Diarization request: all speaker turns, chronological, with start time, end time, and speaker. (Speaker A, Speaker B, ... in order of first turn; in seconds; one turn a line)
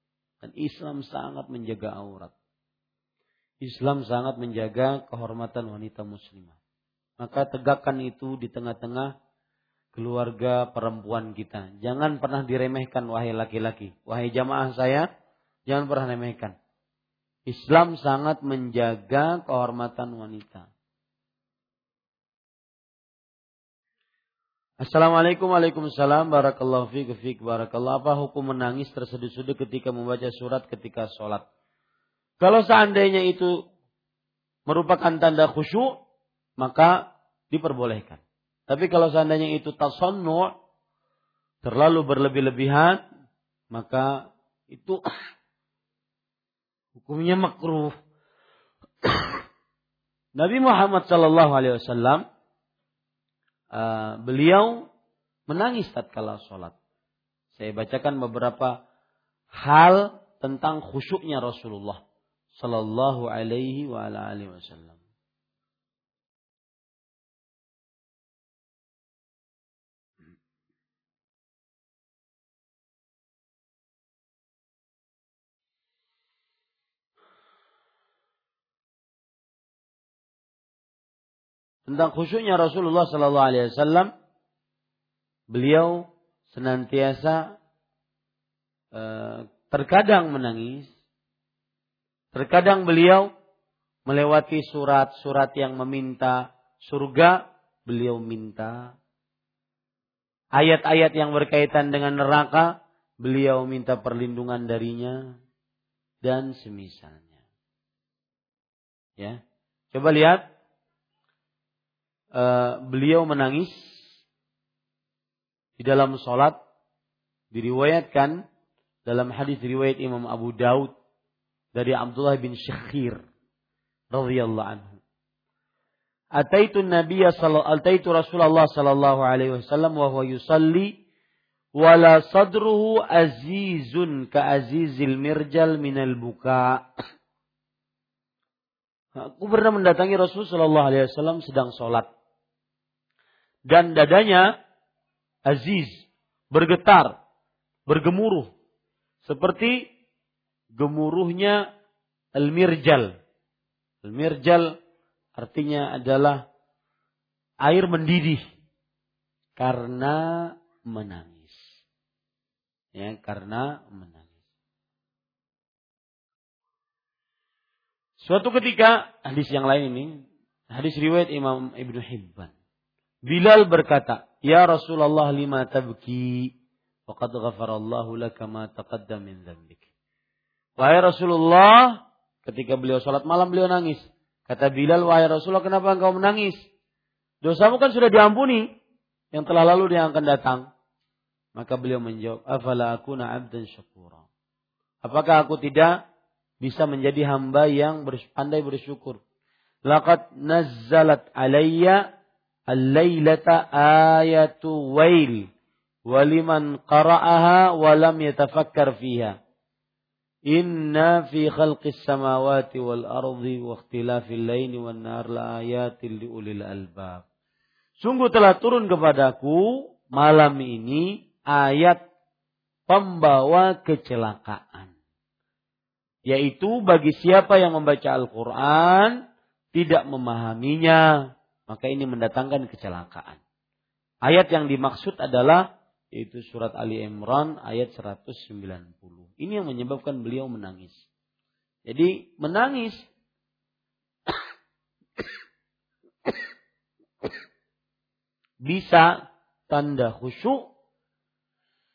Speaker A: 0.4-2.3
Speaker A: 3.6-6.6
Speaker A: 7.2-9.1
Speaker A: 9.9-15.1
Speaker A: 15.7-16.6
Speaker A: 17.5-20.7
Speaker A: 24.8-31.4
Speaker A: 32.4-33.6
Speaker A: 34.7-36.0
Speaker A: 36.6-40.5
Speaker A: 41.6-43.0
Speaker A: 43.7-45.0
Speaker A: 47.0-48.0
Speaker A: 49.0-49.4
Speaker A: 50.4-52.2
Speaker A: 53.7-54.8
Speaker A: 55.5-56.8
Speaker A: 57.5-58.8
Speaker A: 59.5-62.0
Speaker A: 62.5-65.0
Speaker A: 81.9-84.1
Speaker A: 85.5-87.5
Speaker A: 88.9-90.9
Speaker A: 92.3-93.3
Speaker A: 94.1-99.0
Speaker A: 100.6-105.3
Speaker A: 106.2-107.4
Speaker A: 109.9-110.4
Speaker A: 112.3-114.0
Speaker A: 115.8-116.6
Speaker A: 117.5-118.4
Speaker A: 119.1-120.9
Speaker A: 121.8-123.2
Speaker A: 124.1-125.0
Speaker A: 126.4-130.9
Speaker A: 131.8-136.9
Speaker A: 139.2-142.1
Speaker A: 143.7-144.5
Speaker A: 145.5-147.2
Speaker A: 147.9-148.5
Speaker A: 149.2-149.8
Speaker A: 150.7-151.6
Speaker A: 152.4-153.1
Speaker A: 154.0-154.8
Speaker A: 155.4-156.4
Speaker A: 157.6-158.4
Speaker A: 159.6-161.7
Speaker A: 162.9-164.3
Speaker A: 168.2-170.1
Speaker A: 170.7-172.5
Speaker A: 173.3-176.5
Speaker A: 177.1-179.8
Speaker A: 180.8-186.6
Speaker A: 187.4-188.7
Speaker A: 189.3-190.7
Speaker A: 191.6-194.3
Speaker A: 195.0-195.9
Speaker A: 196.6-199.2
Speaker A: 199.9-202.0
Speaker A: 202.7-205.5
Speaker A: 206.1-209.4
Speaker A: 210.5-217.2
Speaker A: 218.0-222.0
Speaker A: 222.9-224.9
Speaker A: 226.3-229.2
Speaker A: 229.7-233.4
Speaker A: 234.2-241.1
Speaker A: 241.9-243.1
Speaker A: 248.7-249.1
Speaker A: 249.7-250.7